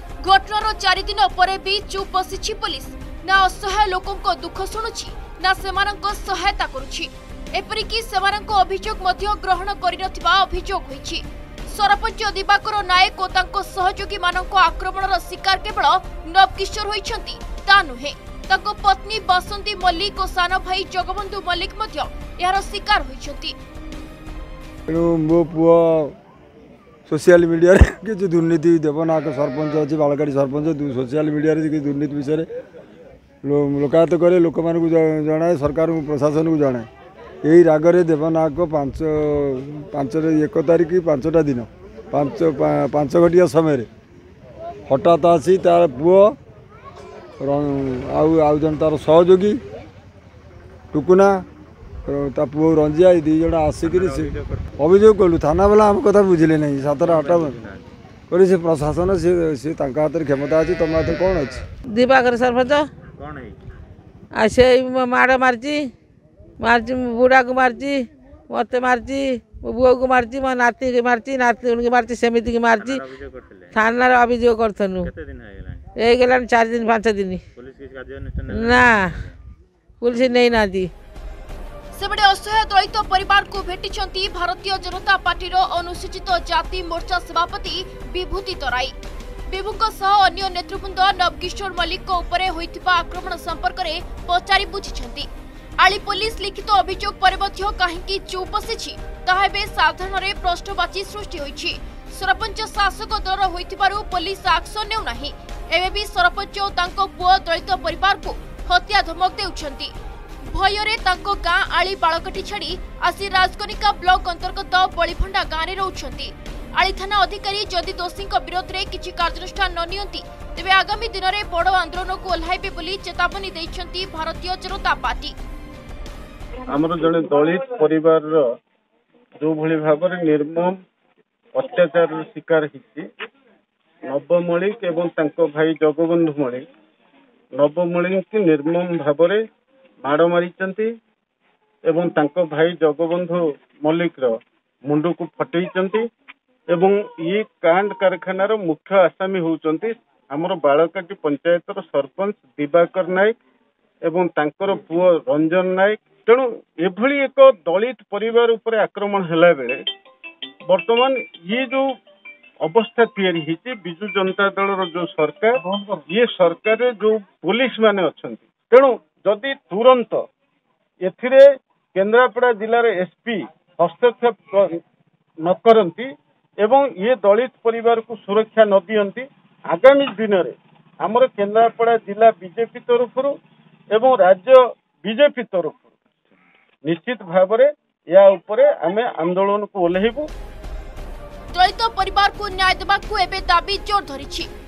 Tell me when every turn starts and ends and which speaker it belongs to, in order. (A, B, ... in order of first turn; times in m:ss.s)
0:00.2-0:23.6 A
0:24.9-0:26.2 B
0:27.1-0:32.5 B
0:33.4-0:36.9 B
0:37.4-0:43.9 B
0:44.9-0:46.4 B
0:47.4-0:49.6 B
0:50.9-0:51.4 B
0:52.0-0:57.6 B
0:53.8-0:54.9 C
0:57.0-0:57.9 C
0:58.3-1:01.6 B
1:01.9-1:02.9 D
1:03.2-1:03.6 C
1:04.3-1:05.9 D
1:06.6-1:13.0 D
1:12.8-1:13.9 C
1:13.7-1:15.1 D
1:15.0-1:15.9 C
1:16.0-1:17.4 D
1:17.6-1:19.3 C
1:18.5-1:19.2 D
1:20.0-1:20.9 D
1:21.9-1:29.0 A
1:29.5-1:35.3 A
1:35.8-1:49.9 A
1:50.4-2:05.4 A
2:06.7-2:08.5 E
2:09.4-2:10.8 E
2:11.5-2:13.1 E
2:14.1-2:16.6 E
2:17.6-2:19.4 E
2:20.0-2:20.9 E
2:21.8-2:26.0 E
2:26.7-2:33.4 E
2:34.0-2:39.8 E
2:40.7-2:41.9 E
2:42.6-2:50.2 E
2:51.0-2:54.6 E
2:55.4-2:56.1 E
2:56.6-3:03.3 E
3:03.9-3:05.9 E
3:06.8-3:10.3 E
3:11.5-3:14.5 A